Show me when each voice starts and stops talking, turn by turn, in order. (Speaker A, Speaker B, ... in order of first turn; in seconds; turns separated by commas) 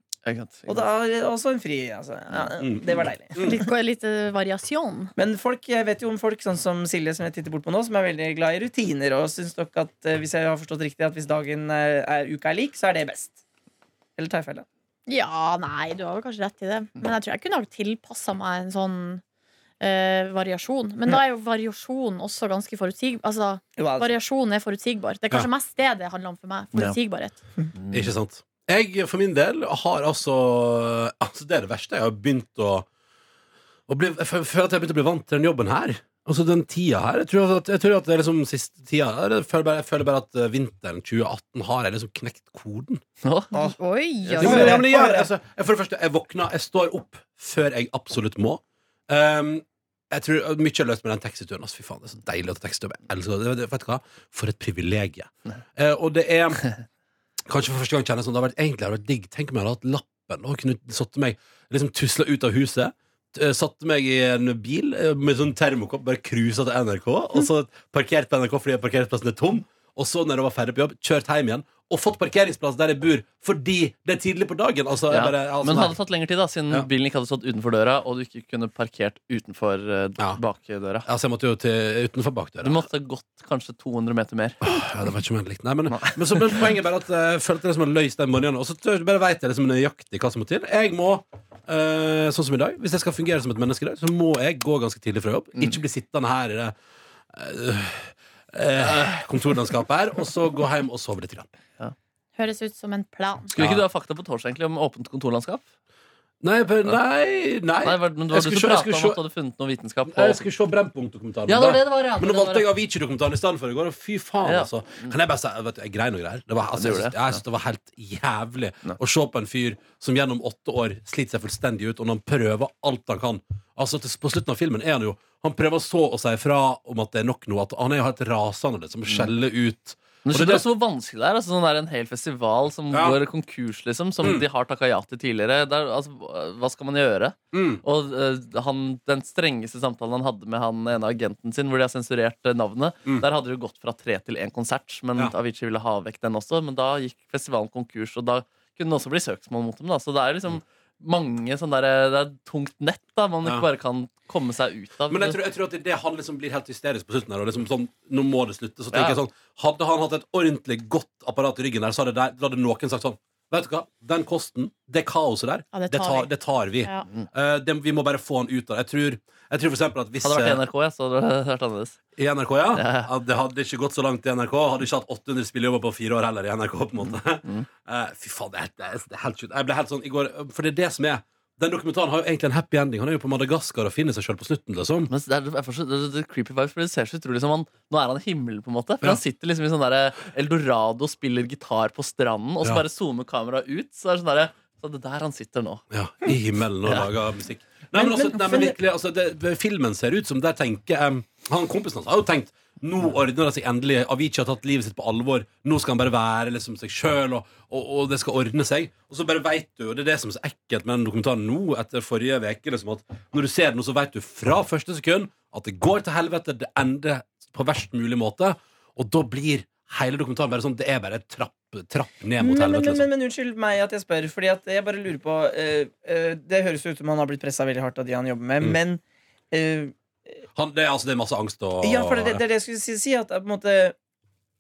Speaker A: 0.2-0.9, Speaker B: 0.7-3.6, Speaker C: 2.6-3.6, Speaker D: 3.4-5.1, Speaker B: 5.2-13.4, Speaker B: 14.2-14.7, Speaker D: 15.1-19.2, Speaker D: 19.8-27.4, Speaker B: 23.8-24.1, Speaker A: 27.8-28.1, Speaker C: 27.9-32.9, Speaker C: 33.9-43.0, Speaker A: 43.2-43.5, Speaker D: 43.6-44.8, Speaker A: 44.3-44.8, Speaker B: 44.3-45.3, Speaker C: 44.4-56.6, Speaker C: 57.5-76.0, Speaker A: 75.1-81.1, Speaker C: 81.0-82.9, Speaker A: 82.6-84.6, Speaker C: 84.6-96.7, Speaker A: 85.9-86.6, Speaker C: 97.3-101.5, Speaker D: 102.4-103.5, Speaker C: 103.5-103.8, Speaker A: 103.6-105.6, Speaker C: 106.4-109.2, Speaker A: 107.8-110.4, Speaker C: 110.1-130.7, Speaker A: 111.5-112.7, Speaker A: 114.4-115.2, Speaker A: 116.8-117.4, Speaker A: 129.1-129.3, Speaker A: 130.2-155.4, Speaker C: 132.9-133.2, Speaker C: 137.5-137.8, Speaker C: 155.1-170.6, Speaker A: 158.9-159.2, Speaker D: 165.7-166.3, Speaker A: 170.2-172.0, Speaker C: 172.2-185.1, Speaker A: 172.8-173.1, Speaker A: 185.1-195.8, Speaker C: 195.9-223.1, Speaker B: 197.9-198.8, Speaker B: 222.4-229.0, Speaker B: 229.5-230.4, Speaker C: 230.6-232.4, Speaker B: 231.8-233.9